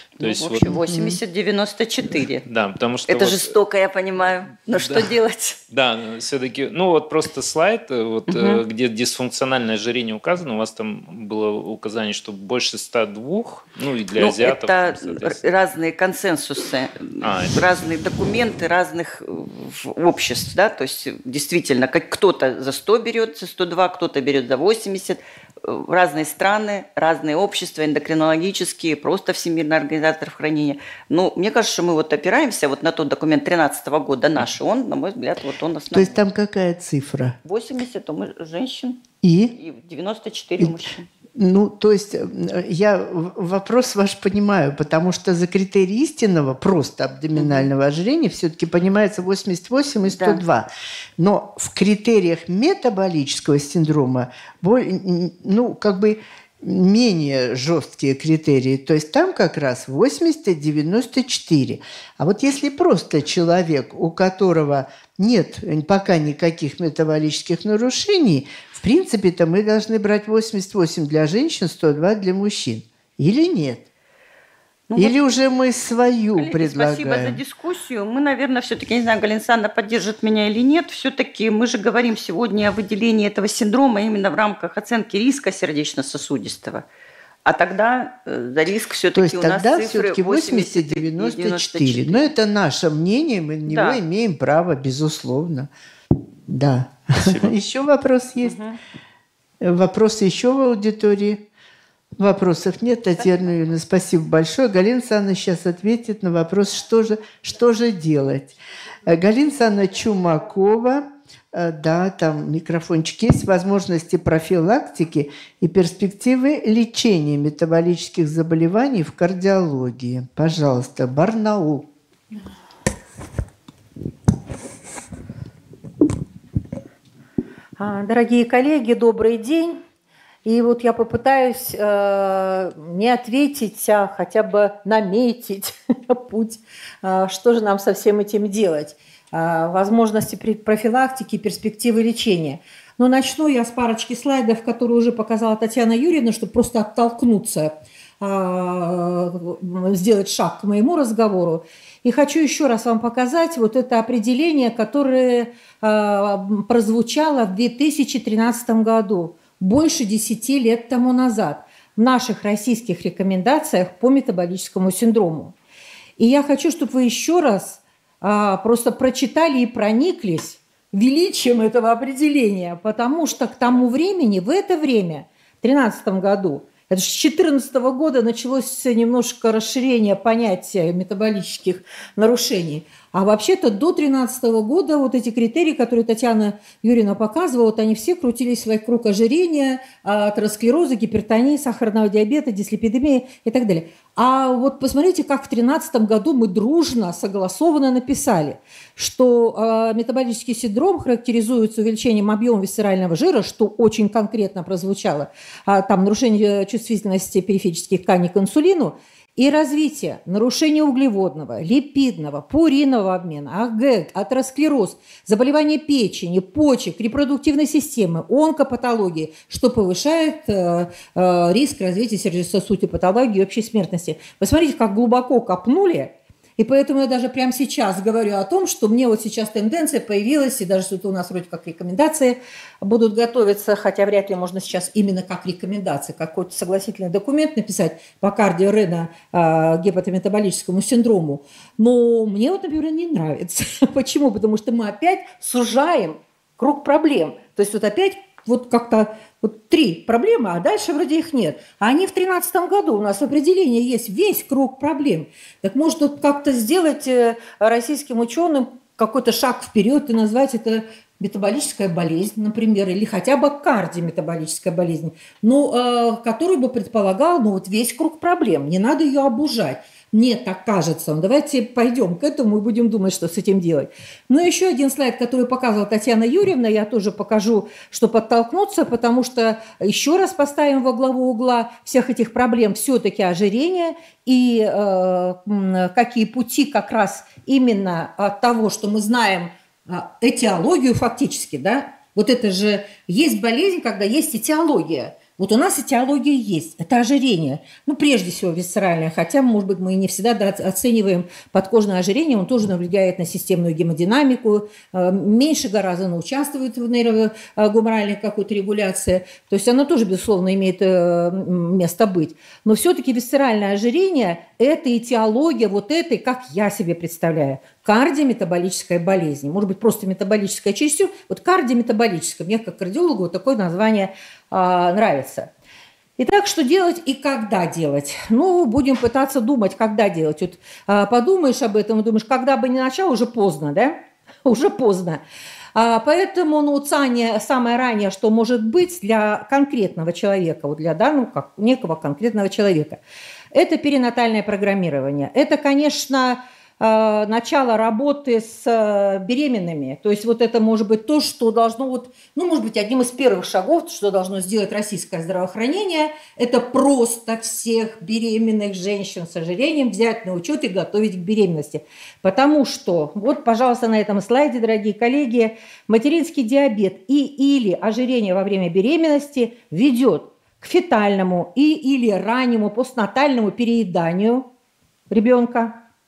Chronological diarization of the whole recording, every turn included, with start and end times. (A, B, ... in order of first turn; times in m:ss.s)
0:00.2-0:02.4 A
0:00.2-0:00.9 B
0:00.9-0:01.1 C
0:02.4-0:03.5 B
0:03.1-0:05.6 A
0:04.7-0:05.1 B
0:05.7-0:15.4 B
0:08.3-0:08.6 A
0:14.2-0:36.2 A
0:17.2-0:17.6 B
0:35.9-0:37.4 C
0:37.4-0:39.0 A
0:39.2-0:39.5 C
0:39.5-0:41.1 A
0:41.4-1:13.9 C
0:47.3-0:47.7 A
0:50.0-0:50.4 A
1:14.9-1:15.5 A
1:15.0-1:17.4 C
1:16.3-1:26.8 A
1:27.4-1:32.3 A
1:29.1-1:35.7 C
1:33.7-1:34.0 A
1:36.5-1:38.6 C
1:37.2-1:37.5 B
1:38.4-1:38.8 A
1:39.6-1:41.5 C
1:42.2-2:01.9 C
2:07.8-2:09.8 D
2:10.4-2:45.5 D
2:46.2-5:25.5 D
5:26.2-5:35.2 D
5:35.7-5:43.0 D
5:43.5-6:14.4 D
6:15.1-6:15.8 D